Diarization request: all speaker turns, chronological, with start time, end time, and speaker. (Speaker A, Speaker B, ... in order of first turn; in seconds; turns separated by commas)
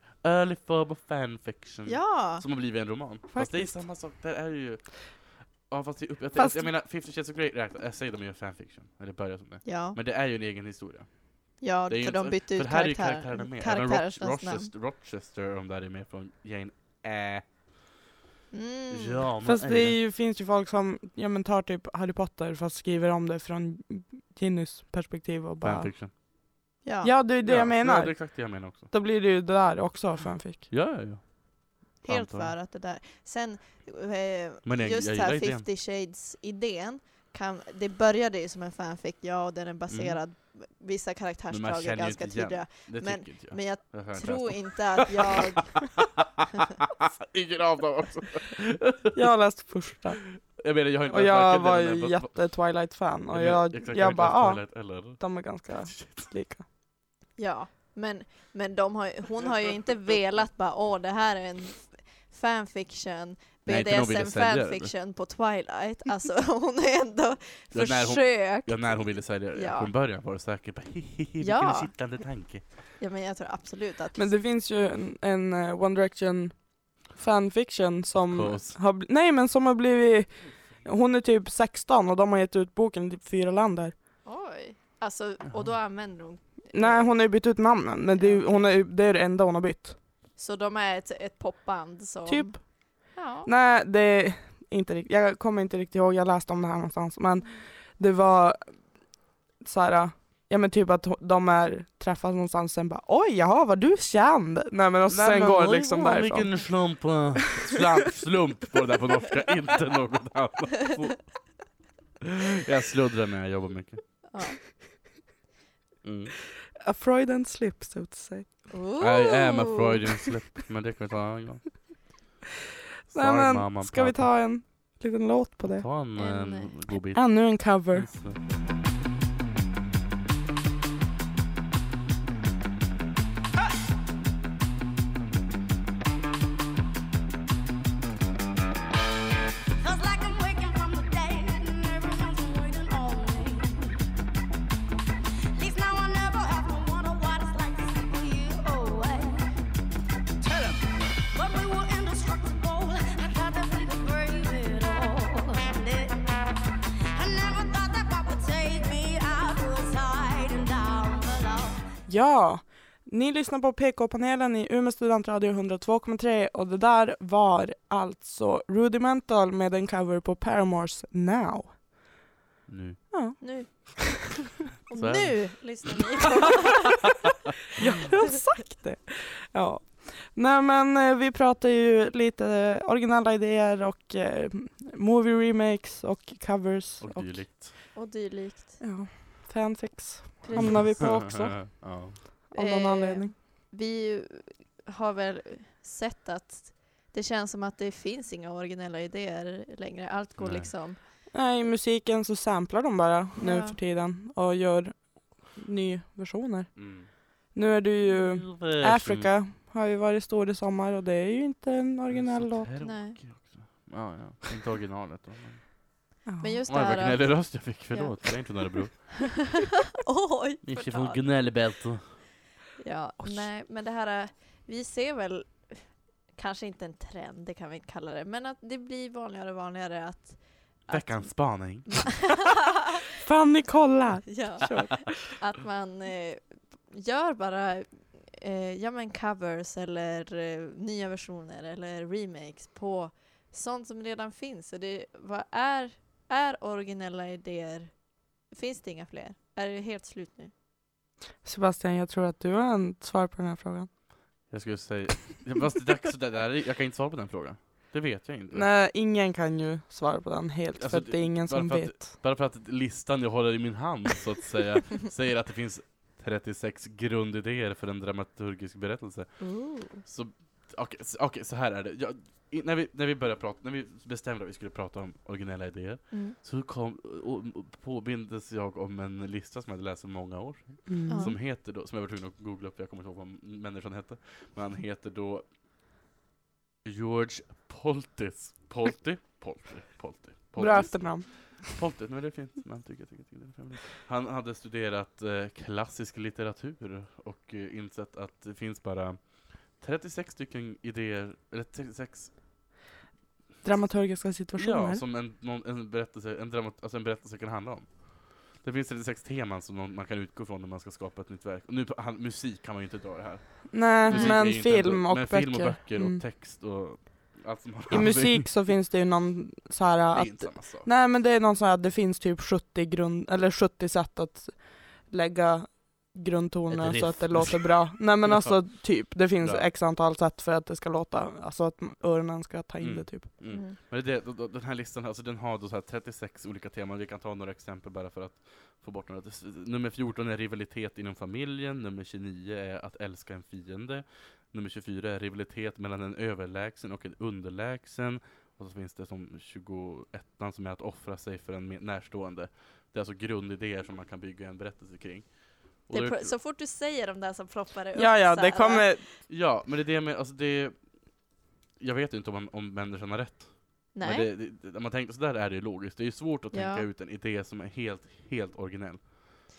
Speaker A: 0.2-17.4, Speaker B: 1.9-2.4, Speaker C: 3.3-3.8, Speaker C: 6.3-6.7, Speaker B: 9.6-10.0, Speaker B: 11.6-14.7, Speaker B: 18.5-19.2, Speaker A: 18.9-20.0, Speaker C: 19.4-25.9, Speaker A: 25.6-26.1, Speaker B: 26.8-27.1, Speaker C: 27.0-30.7, Speaker A: 27.4-28.9, Speaker A: 30.7-32.5, Speaker B: 32.0-45.8, Speaker A: 34.6-35.6, Speaker A: 39.9-40.2, Speaker A: 41.5-45.4, Speaker A: 46.0-46.2, Speaker A: 47.0-49.2, Speaker C: 49.1-50.2, Speaker A: 50.6-52.4, Speaker C: 51.1-56.6, Speaker A: 53.3-56.3, Speaker B: 57.4-69.9, Speaker A: 63.6-64.9, Speaker A: 67.7-72.6, Speaker B: 71.4-71.9, Speaker B: 73.0-74.3, Speaker C: 74.2-83.9, Speaker A: 78.3-78.8, Speaker B: 84.2-87.2, Speaker C: 86.7-90.0, Speaker B: 88.2-88.7, Speaker B: 90.4-92.6, Speaker C: 92.2-92.7, Speaker B: 93.1-93.5, Speaker C: 93.4-98.6, Speaker C: 99.6-106.7, Speaker A: 105.1-111.3, Speaker A: 112.2-114.2, Speaker B: 114.3-114.6, Speaker A: 116.0-116.4, Speaker C: 116.8-118.7, Speaker B: 118.7-120.0, Speaker A: 119.0-121.8, Speaker C: 123.1-125.9, Speaker A: 123.1-124.3, Speaker A: 125.7-128.4, Speaker B: 126.2-126.7, Speaker C: 127.1-128.1, Speaker D: 139.8-143.9, Speaker D: 145.6-149.4, Speaker D: 150.4-156.3, Speaker D: 157.2-161.8, Speaker C: 162.1-171.8, Speaker A: 172.7-173.5, Speaker C: 173.1-173.9, Speaker B: 173.4-174.3, Speaker B: 174.9-177.0, Speaker A: 174.9-175.8, Speaker C: 177.8-187.4, Speaker A: 187.0-187.8, Speaker B: 187.9-188.8, Speaker C: 188.8-191.7, Speaker B: 190.4-190.9, Speaker A: 190.5-192.2, Speaker C: 192.2-193.3, Speaker B: 192.5-201.0, Speaker A: 200.4-200.7, Speaker C: 201.3-212.7, Speaker B: 203.4-203.8, Speaker A: 206.8-207.1, Speaker A: 208.1-209.3, Speaker A: 212.1-215.8, Speaker B: 212.8-213.2, Speaker C: 216.2-216.6, Speaker B: 216.4-218.5, Speaker A: 216.7-219.4, Speaker B: 220.0-221.2, Speaker A: 220.6-222.3, Speaker B: 222.8-232.1, Speaker C: 223.2-223.5, Speaker A: 230.9-232.3, Speaker C: 233.2-235.1, Speaker B: 234.3-247.9, Speaker B: 248.5-250.5, Speaker C: 251.4-253.9, Speaker A: 254.5-258.7, Speaker C: 258.5-262.1, Speaker A: 260.8-269.5, Speaker B: 269.4-270.0, Speaker A: 270.0-285.4, Speaker B: 276.1-276.4, Speaker C: 280.9-281.3, Speaker B: 281.1-281.4, Speaker A: 286.8-302.4, Speaker C: 290.6-291.6, Speaker C: 303.6-305.0, Speaker A: 303.7-318.7, Speaker C: 313.7-316.2, Speaker B: 314.1-314.4, Speaker C: 317.9-333.3, Speaker A: 320.1-320.9, Speaker A: 326.7-329.6, Speaker A: 332.8-356.3, Speaker B: 333.5-333.8, Speaker B: 355.9-359.0, Speaker C: 357.9-359.0, Speaker A: 359.3-360.8, Speaker A: 361.8-369.5, Speaker B: 363.9-364.3, Speaker B: 366.5-366.9